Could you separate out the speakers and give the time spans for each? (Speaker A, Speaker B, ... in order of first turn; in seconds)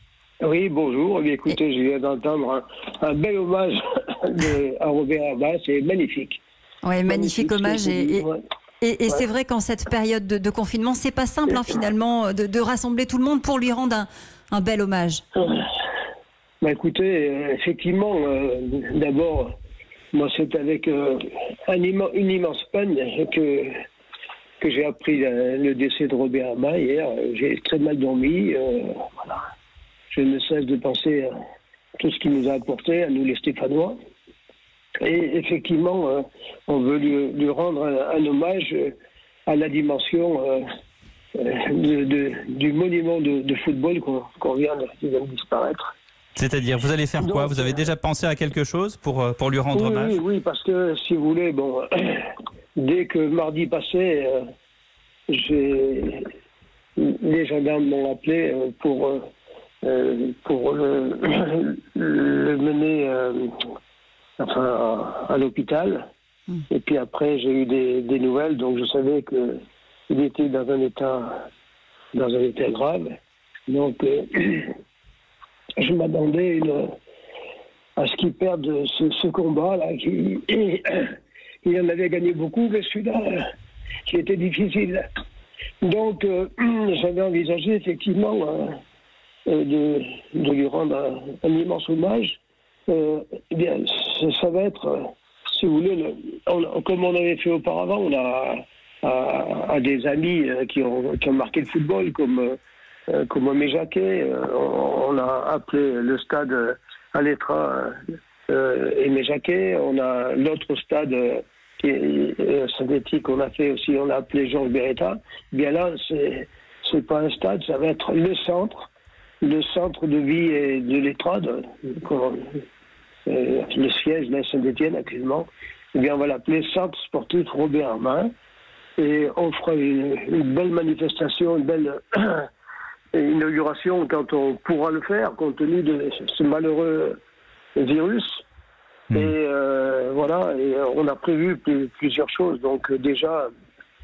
Speaker A: 0.4-6.4, 7.0-8.4, 15.3-15.7, 16.6-19.6, 20.1-23.8, 24.6-29.5, 30.1-31.3, 32.0-34.0, 35.0-38.9, 39.5-40.6, 41.3-46.0, 47.2-47.9, 49.7-54.5, 55.3-56.3, 57.0-59.3, 59.8-63.6, 64.4-66.1, 66.7-71.5, 72.1-74.8, 75.8-76.9, 78.0-83.5, 84.0-85.1, 85.8-88.8, 89.5-118.9, 119.4-122.6, 123.2-128.3, 129.0-132.5, 133.1-137.2, 137.8-138.4, 139.1-143.5
Speaker B: 6.8-8.3, 8.8-15.2
Speaker C: 46.4-50.2